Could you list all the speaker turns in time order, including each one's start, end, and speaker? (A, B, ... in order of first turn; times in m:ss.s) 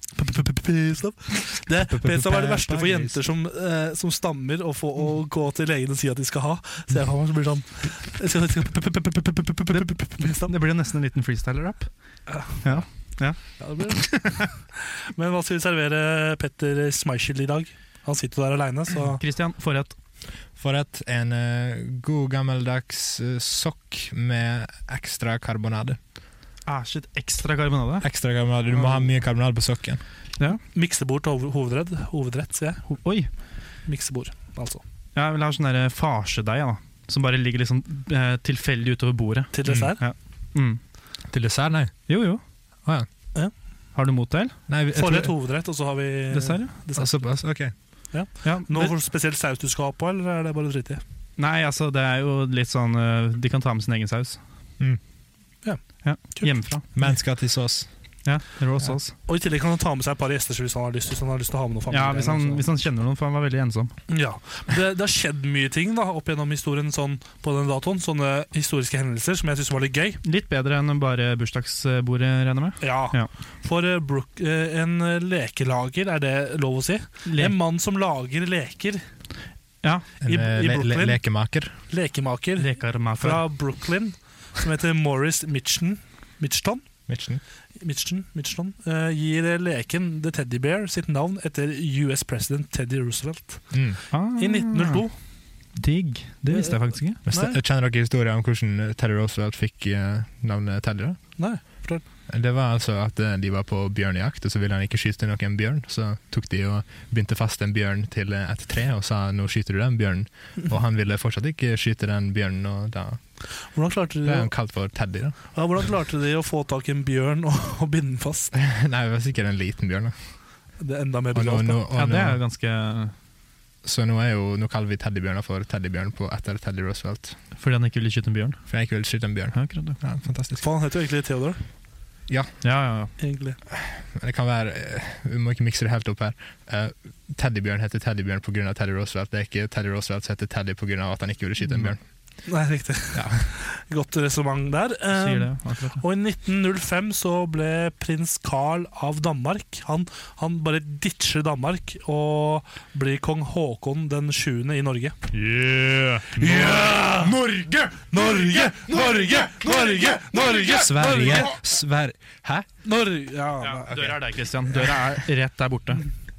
0:00.1-0:10.5 A
0:01.7-0:03.2 B
0:09.7-0:14.5 C
0:12.3-0:12.7 A
0:13.6-0:19.2 A
0:19.2-0:19.9 C
0:20.5-0:26.0 B
0:26.6-0:28.1 C
0:28.0-0:30.0 B
0:30.7-0:32.9 A
0:32.8-0:33.3 C
0:33.8-0:34.8 A
0:35.1-0:40.8 C
0:39.5-0:40.0 A
0:39.7-0:40.0 B
0:41.3-0:42.0 B
0:42.1-0:42.4 C
0:43.9-0:44.6 C
0:44.7-0:45.3 B
0:44.9-0:47.2 A
0:46.3-0:46.8 C
0:47.0-0:47.7 B
0:48.1-0:51.0 A
0:48.4-0:48.9 C
0:51.4-0:54.4 C
0:55.6-0:56.6 A
0:56.0-0:56.8 C
0:56.9-0:57.9 B
0:58.2-0:59.1 C
0:59.1-1:02.6 A
1:01.9-1:03.9 C
1:04.1-1:10.2 A
1:10.2-1:13.3 C
1:12.8-1:19.0 A
1:17.2-1:17.6 C
1:19.8-1:20.1 C
1:20.2-1:21.8 B
1:20.2-1:26.8 A
1:22.6-1:23.5 C
1:27.1-1:27.4 B
1:27.8-1:35.1 A
1:33.7-1:34.0 B
1:34.1-1:35.0 C
1:35.7-1:37.2 C
1:36.5-1:37.6 A
1:37.2-1:53.4 B
1:41.4-1:42.0 A
1:53.7-1:54.5 A
1:54.2-1:55.4 B
1:55.5-1:58.5 A
1:58.5-2:00.2 B
2:00.8-2:01.8 A
2:01.3-2:02.4 B
2:01.9-2:03.1 C
2:03.8-2:07.4 B
2:07.6-2:08.6 C
2:08.7-2:10.6 B
2:09.5-2:10.0 C
2:10.6-2:11.6 A
2:12.3-2:12.6 B
2:12.6-2:13.1 C
2:13.2-2:13.6 A
2:13.7-2:22.0 B
2:21.7-2:21.9 C
2:22.4-2:35.2 A
2:23.1-2:23.4 B
2:25.1-2:26.0 C
2:35.3-2:37.0 C
2:36.3-2:37.5 A
2:38.0-2:41.5 A
2:40.6-2:42.7 B
2:42.8-2:44.0 A
2:43.6-2:46.0 C